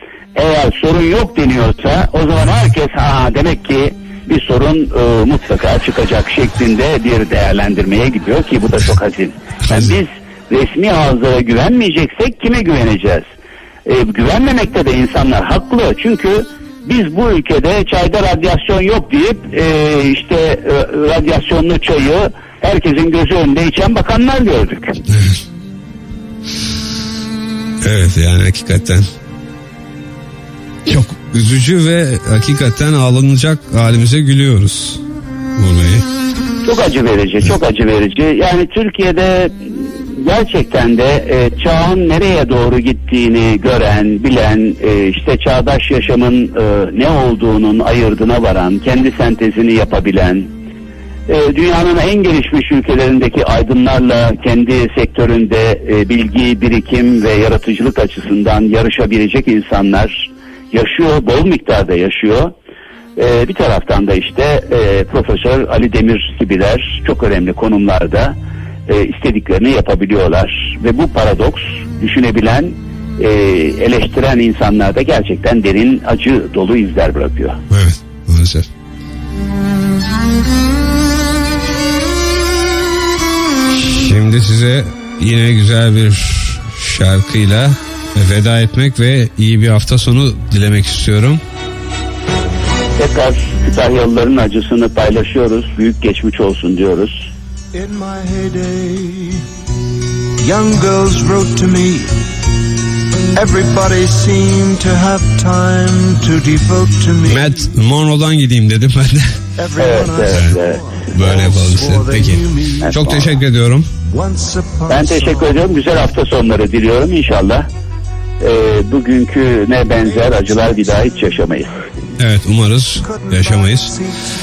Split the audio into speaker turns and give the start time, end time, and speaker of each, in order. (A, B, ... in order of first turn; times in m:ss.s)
0:00.3-0:13.2 A
0:13.8-0:25.0 A
0:25.1-0:25.4 B
0:27.8-0:29.0 B
0:30.8-0:35.0 B
0:35.6-0:36.0 B
0:36.6-0:50.5 A
0:51.3-1:02.5 A
1:03.2-1:08.4 A
1:08.9-1:17.6 A
1:17.7-1:18.7 B
1:23.7-1:31.4 B
1:33.0-1:37.3 A
1:37.7-1:39.4 C
1:40.4-1:42.1 C
1:43.3-1:47.5 C
1:47.2-1:49.3 B
1:49.6-1:53.3 C
1:49.8-1:50.8 A
1:50.3-1:50.6 B
1:51.1-1:53.9 B
1:54.1-1:55.7 C
1:54.9-1:57.6 A
1:58.4-2:01.8 A
2:02.2-2:03.9 B
2:03.1-2:04.1 C